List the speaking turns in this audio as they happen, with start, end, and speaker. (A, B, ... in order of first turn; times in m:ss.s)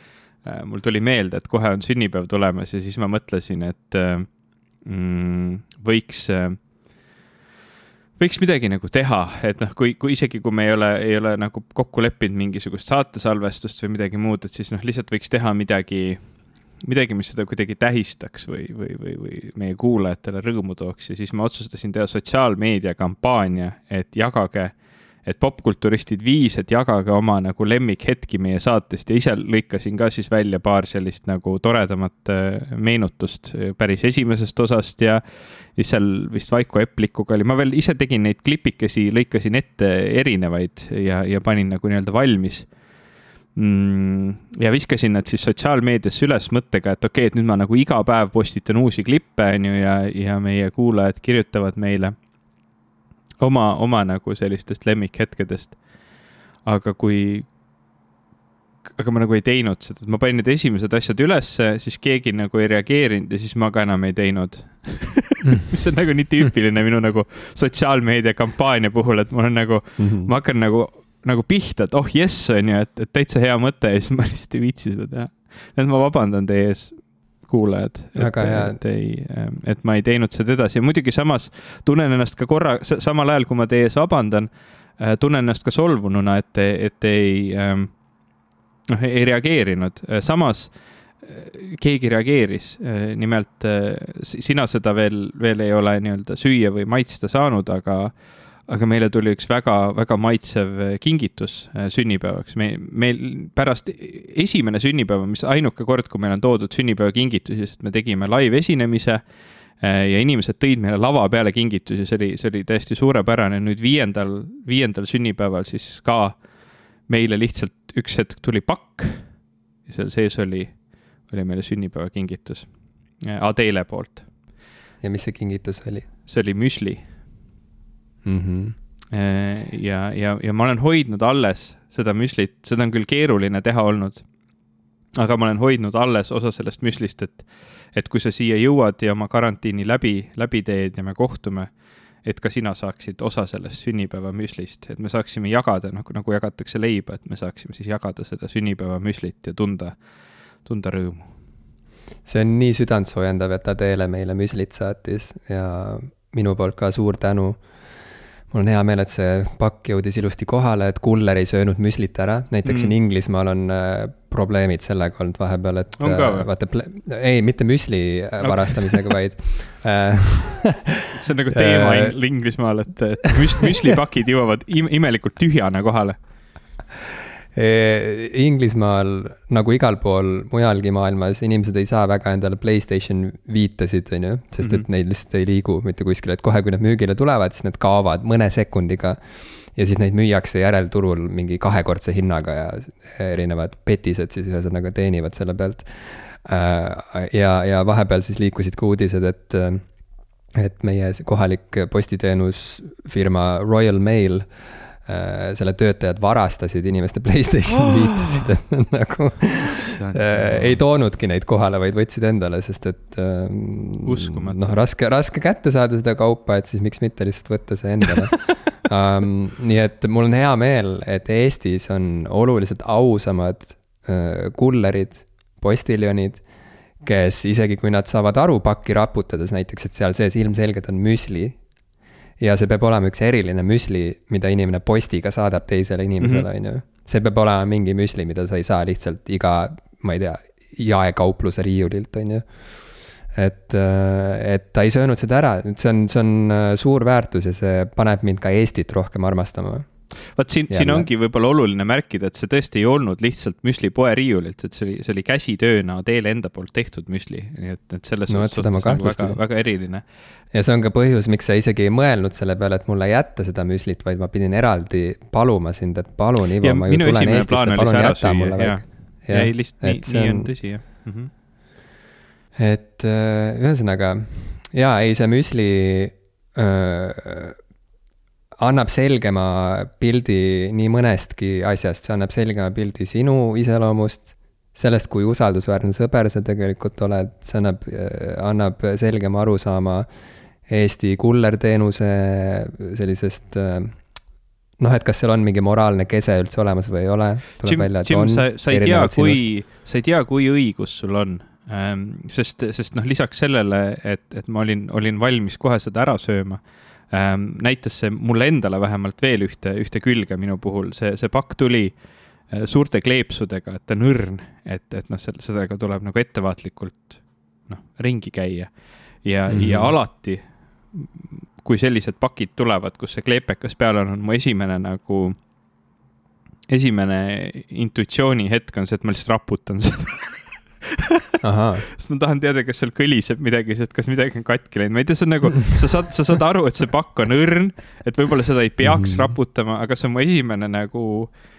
0:00.4-0:06.6 A
0:08.2-0:42.7 A
0:43.6-0:52.2 A
0:53.4-0:55.8 A
0:56.6-0:57.5 A
0:59.0-1:28.0 A
1:05.4-1:05.7 B
1:10.0-1:10.3 B
1:18.2-1:18.8 B
1:28.9-1:49.2 A
1:49.8-2:04.2 A
2:05.0-2:06.1 B
2:06.3-2:07.1 A
2:08.2-2:08.8 B
2:09.1-2:14.2 A
2:15.2-2:30.0 A
2:30.6-2:31.4 A
2:32.2-2:37.7 B
2:38.5-2:52.2 B
2:42.6-2:42.9 A
2:46.0-2:46.5 A
2:48.4-2:49.1 A
2:51.1-2:56.2 A
2:57.5-3:19.9 B
3:04.6-3:04.9 A
3:20.5-3:46.4 B
3:27.8-3:28.5 A
3:29.6-3:30.8 A
3:34.0-3:34.8 A
3:47.0-3:51.6 B
3:52.4-4:02.6 B
3:56.2-3:56.5 A
4:03.2-4:09.9 B
4:10.3-4:20.0 A
4:10.7-4:11.1 B
4:18.3-4:19.4 B
4:20.5-4:30.5 B
4:26.6-4:31.3 A
4:32.5-4:37.6 B
4:38.6-4:50.1 B
4:50.7-4:54.0 B
4:54.8-4:59.5 B
4:57.6-5:25.4 A
5:19.5-5:20.0 B
5:26.7-5:31.0 A
5:31.4-5:31.9 B
5:31.9-5:41.4 A
5:38.8-5:39.3 B